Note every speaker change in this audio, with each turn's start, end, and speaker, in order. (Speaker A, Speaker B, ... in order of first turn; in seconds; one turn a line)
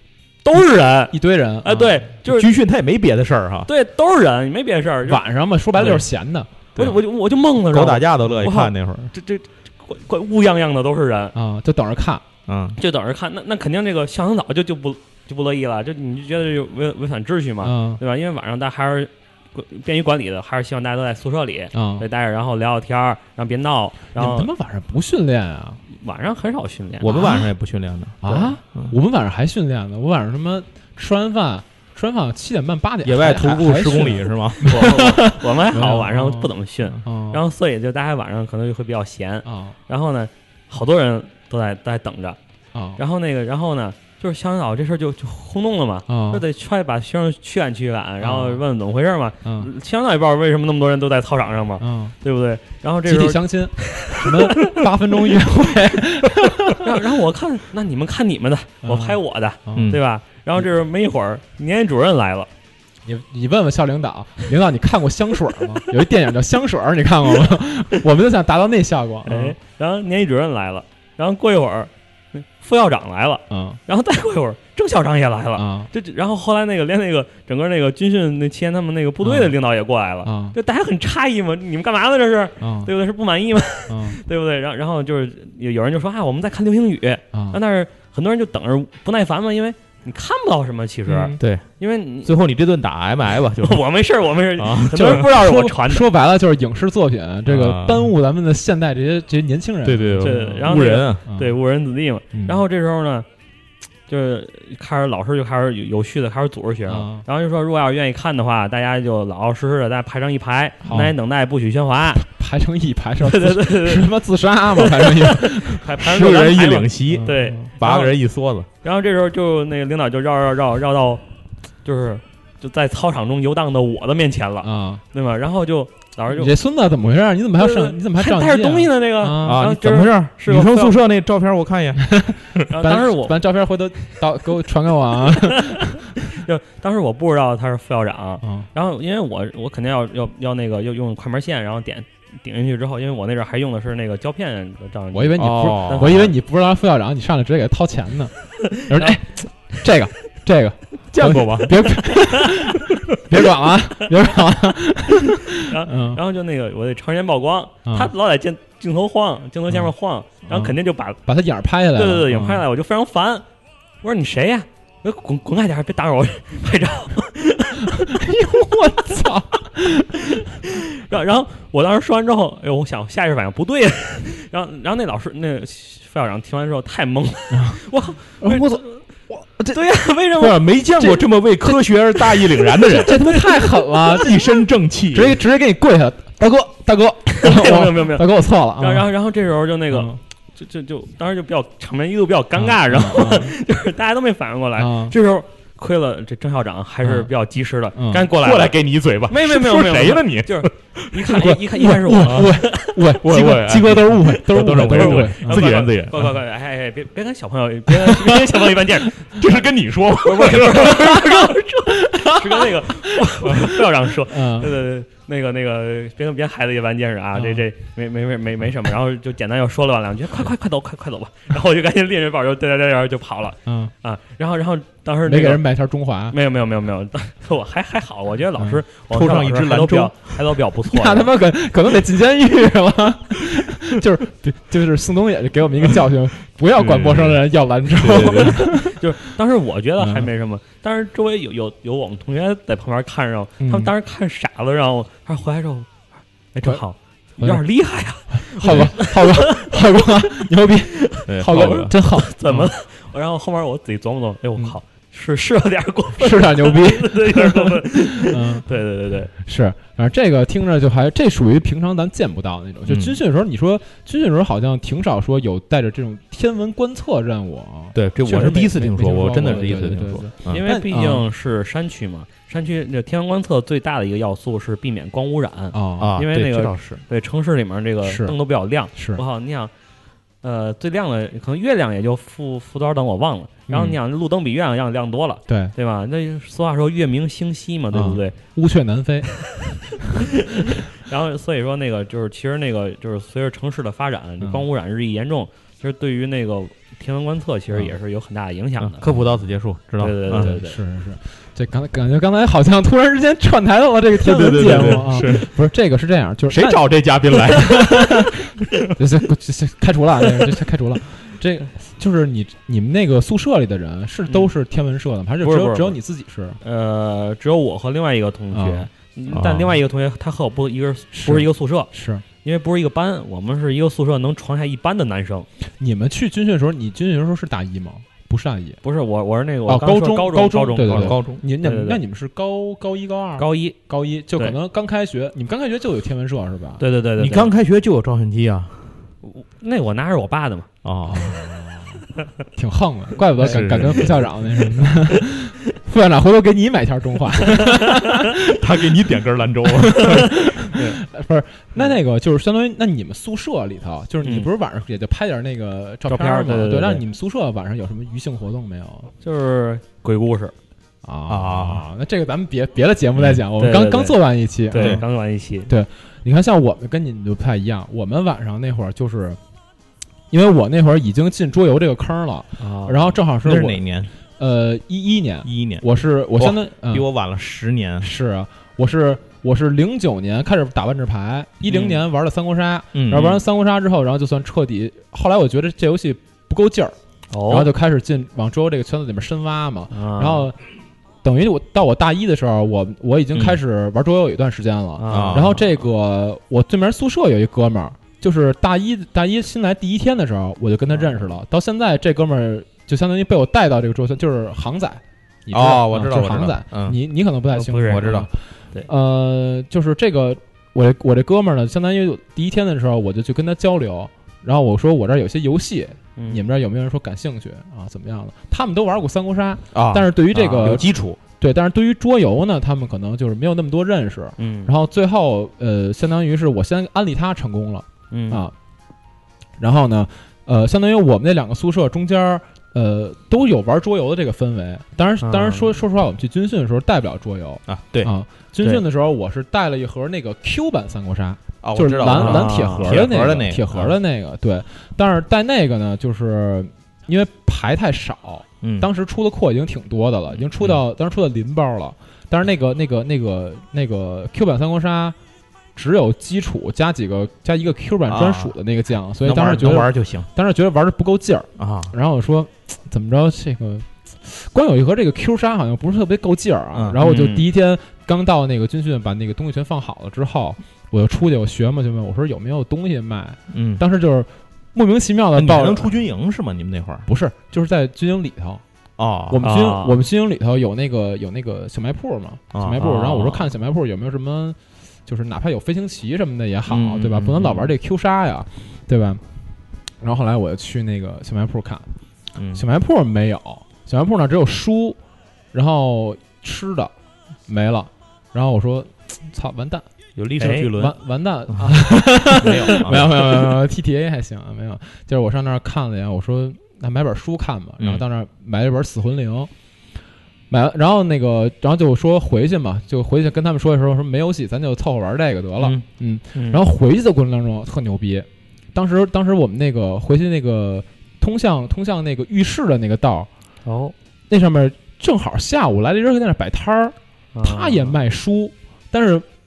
Speaker A: 0.4-2.5
Speaker B: 1.1-1.9
Speaker C: 2.2-3.7
Speaker A: 3.7-5.2
Speaker B: 5.1-6.5
Speaker A: 5.8-6.0
Speaker C: 6.8-7.0
Speaker A: 6.8-11.3
Speaker C: 7.7-9.1
Speaker B: 11.3-12.2
Speaker C: 12.5-12.8
Speaker A: 12.8-24.5
Speaker B: 17.6-18.0
Speaker B: 21.7-22.0
Speaker B: 24.1-25.8
Speaker A: 25.9-27.2
Speaker C: 27.0-28.9
Speaker B: 27.1-27.4
Speaker B: 28.2-36.5
Speaker C: 33.0-34.8
Speaker A: 34.6-42.4
Speaker B: 37.0-37.4
Speaker B: 39.4-39.8
Speaker B: 42.7-43.0
Speaker A: 43.0-54.9
Speaker B: 46.1-46.4
Speaker B: 48.2-48.6
Speaker B: 51.8-52.1
Speaker B: 53.0-56.9
Speaker A: 56.7-62.5
Speaker B: 58.8-60.0
Speaker C: 59.7-60.0
Speaker B: 63.0-69.5
Speaker A: 69.2-92.3
Speaker B: 73.5-73.8
Speaker B: 75.5-75.9
Speaker B: 79.2-79.5
Speaker B: 80.2-80.6
Speaker B: 82.6-82.9
Speaker B: 83.9-84.2
Speaker B: 87.3-87.6
Speaker B: 91.1-91.4
Speaker C: 91.4-91.7
Speaker C: 92.2-93.8
Speaker A: 93.5-96.1
Speaker C: 94.6-95.0
Speaker B: 94.9-100.7
Speaker C: 97.5-98.1
Speaker C: 99.8-101.2
Speaker A: 100.2-103.2
Speaker B: 101.2-101.5
Speaker B: 102.3-102.6
Speaker A: 104.1-112.2
Speaker B: 106.9-107.2
Speaker B: 110.8-111.1
Speaker B: 112.2-115.8
Speaker A: 113.2-114.2
Speaker A: 114.8-118.2
Speaker C: 115.9-118.7
Speaker B: 117.1-117.7
Speaker A: 118.8-121.2
Speaker A: 121.8-126.5
Speaker B: 124.6-125.0
Speaker B: 126.3-129.6
Speaker A: 127.6-131.0
Speaker C: 129.4-132.7
Speaker B: 132.0-136.1
Speaker A: 132.7-133.4
Speaker A: 135.3-146.3
Speaker B: 138.4-138.7
Speaker B: 145.1-156.2
Speaker C: 145.4-146.3
Speaker C: 151.1-152.0
Speaker A: 152.1-152.6
Speaker A: 155.5-161.2
Speaker B: 157.8-158.1
Speaker B: 160.5-162.6
Speaker A: 161.9-163.4
Speaker A: 164.0-168.2
Speaker B: 167.8-170.5
Speaker A: 170.3-179.0
Speaker B: 177.5-177.8
Speaker B: 178.4-179.8
Speaker A: 179.7-180.6
Speaker C: 180.4-183.2
Speaker A: 182.4-184.0
Speaker B: 182.8-184.4
Speaker C: 184.1-185.4
Speaker B: 185.1-189.1
Speaker A: 187.4-198.8
Speaker B: 189.9-190.2
Speaker B: 192.6-193.5
Speaker B: 194.8-195.1
Speaker B: 197.0-197.3
Speaker B: 197.9-198.3
Speaker C: 198.3-201.3
Speaker A: 199.3-203.0
Speaker B: 201.3-205.7
Speaker C: 202.2-202.5
Speaker C: 203.1-206.3
Speaker A: 204.5-209.6
Speaker B: 207.9-208.2
Speaker C: 209.4-211.3
Speaker A: 210.2-225.6
Speaker B: 210.8-214.7
Speaker B: 217.3-217.6
Speaker B: 223.7-223.9
Speaker B: 225.2-226.3
Speaker A: 226.3-231.3
Speaker B: 228.6-228.8
Speaker C: 229.1-230.3
Speaker B: 230.9-239.3
Speaker C: 236.7-238.7
Speaker A: 238.3-245.9
Speaker B: 240.0-240.3
Speaker B: 243.6-243.9
Speaker A: 246.5-250.3
Speaker B: 248.3-252.7
Speaker A: 250.9-259.3
Speaker C: 251.2-251.9
Speaker B: 256.2-258.6
Speaker B: 259.4-271.2
Speaker C: 262.9-263.2
Speaker C: 267.9-270.6
Speaker A: 270.4-279.7
Speaker B: 275.7-276.1
Speaker C: 276.0-277.0
Speaker B: 278.0-278.3
Speaker B: 278.9-279.2
Speaker A: 280.4-288.3
Speaker B: 283.7-283.9
Speaker B: 285.5-285.7
Speaker B: 287.9-289.4
Speaker A: 290.1-299.1
Speaker C: 298.8-300.6
Speaker A: 300.0-300.8
Speaker B: 300.3-306.8
Speaker C: 304.2-305.5
Speaker A: 304.5-305.1
Speaker C: 306.5-308.6
Speaker B: 307.5-308.4
Speaker B: 308.9-316.6
Speaker A: 315.4-316.0
Speaker A: 316.6-321.9
Speaker B: 318.5-318.9
Speaker C: 319.3-319.8
Speaker B: 321.1-322.2
Speaker A: 322.4-325.5
Speaker B: 325.8-328.8
Speaker A: 328.8-332.0
Speaker B: 329.7-336.8
Speaker C: 330.8-331.4
Speaker A: 333.4-333.8
Speaker A: 336.8-337.5
Speaker C: 337.2-339.0
Speaker A: 339.2-340.7
Speaker C: 340.8-341.8
Speaker B: 341.1-341.8
Speaker B: 342.5-348.6
Speaker C: 343.4-344.3
Speaker A: 343.4-344.0
Speaker C: 348.4-350.4
Speaker B: 349.7-359.1
Speaker A: 350.7-351.0
Speaker A: 354.2-354.5
Speaker A: 356.1-357.0
Speaker A: 359.2-360.5
Speaker B: 361.0-365.0
Speaker C: 361.3-361.8
Speaker A: 363.6-364.2
Speaker A: 364.7-365.7
Speaker C: 364.8-365.0
Speaker B: 365.7-369.4
Speaker B: 370.3-373.8
Speaker A: 372.6-373.1
Speaker C: 373.4-374.1
Speaker B: 374.4-377.1
Speaker C: 375.4-375.8
Speaker C: 376.4-378.1
Speaker B: 378.0-386.9
Speaker A: 381.6-382.0
Speaker C: 382.9-383.4
Speaker A: 387.3-387.7
Speaker B: 387.5-390.6
Speaker A: 389.9-390.4
Speaker B: 391.2-408.3
Speaker C: 393.3-393.6
Speaker A: 395.0-395.5
Speaker C: 395.1-395.6
Speaker C: 405.5-407.0
Speaker A: 407.5-408.1
Speaker C: 407.9-408.3
Speaker B: 408.8-420.9
Speaker A: 416.2-416.4
Speaker C: 419.7-421.2
Speaker B: 421.4-428.5
Speaker A: 424.4-424.7
Speaker A: 428.1-428.4
Speaker B: 429.6-455.1
Speaker A: 435.2-435.7
Speaker C: 437.7-438.1
Speaker C: 441.6-443.9
Speaker A: 442.1-443.0
Speaker C: 448.6-448.9
Speaker B: 455.8-475.9
Speaker C: 458.1-458.5
Speaker C: 459.2-460.3
Speaker C: 461.6-461.9
Speaker C: 466.7-467.0
Speaker A: 467.0-467.5
Speaker C: 473.5-473.8
Speaker C: 475.3-477.1
Speaker B: 477.1-478.6
Speaker C: 479.0-479.5
Speaker B: 479.3-489.2
Speaker A: 479.4-480.0
Speaker C: 482.5-482.8
Speaker A: 482.8-483.4
Speaker C: 486.7-487.7
Speaker B: 490.0-491.9
Speaker C: 492.4-492.6
Speaker B: 492.5-495.0
Speaker B: 495.5-496.9
Speaker B: 497.5-499.8
Speaker C: 500.1-500.9
Speaker A: 500.4-500.7
Speaker B: 500.7-509.5
Speaker C: 501.5-503.5
Speaker B: 510.5-523.3
Speaker A: 516.3-516.6
Speaker A: 523.6-523.9
Speaker B: 524.3-529.2
Speaker A: 527.3-527.9